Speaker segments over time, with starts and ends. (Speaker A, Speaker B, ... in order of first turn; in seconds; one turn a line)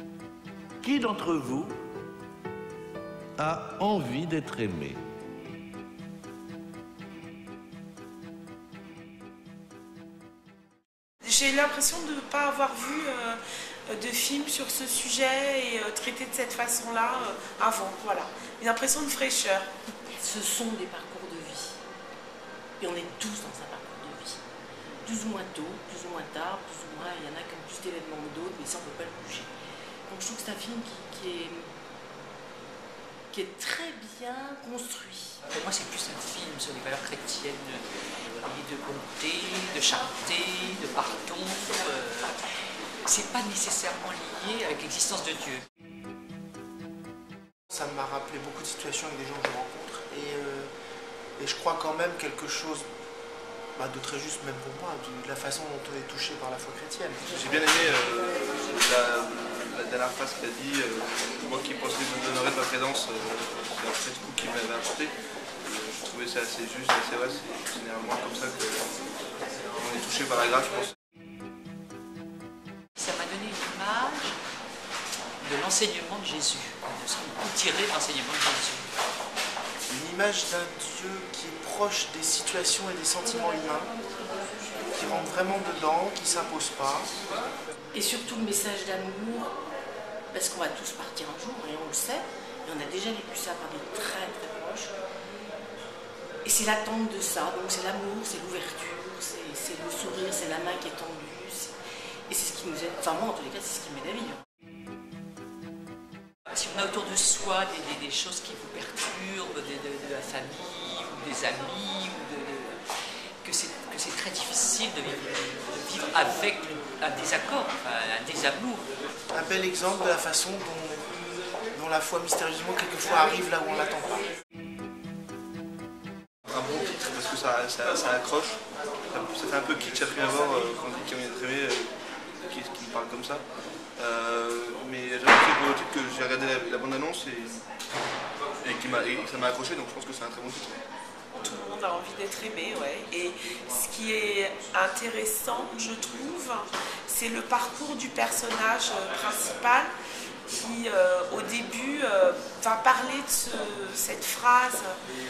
Speaker A: 0.8-1.8
Speaker A: 3.4-5.0
Speaker B: 11.2-19.7
Speaker C: 20.2-21.8
Speaker C: 22.8-24.4
Speaker C: 25.1-29.5
Speaker C: 30.1-31.7
Speaker C: 33.3-35.4
Speaker D: 35.5-42.4
Speaker D: 43.0-45.6
Speaker E: 47.7-50.7
Speaker E: 51.4-52.9
Speaker E: 53.8-57.3
Speaker F: 57.3-69.0
Speaker F: 69.8-70.9
Speaker D: 73.0-74.4
Speaker D: 75.4-78.9
Speaker E: 79.9-83.9
Speaker E: 84.9-87.1
Speaker C: 87.9-89.5
Speaker C: 90.3-95.0
Speaker C: 96.4-101.8
Speaker C: 102.3-104.4
Speaker D: 106.5-112.8
Speaker D: 113.4-118.9
Speaker E: 119.3-121.1
Speaker E: 121.7-124.2
Speaker F: 126.5-131.9
Speaker F: 132.4-133.4
Speaker F: 134.0-137.6
Speaker F: 138.6-140.8
Speaker B: 141.3-149.9
Speaker B: 150.5-154.9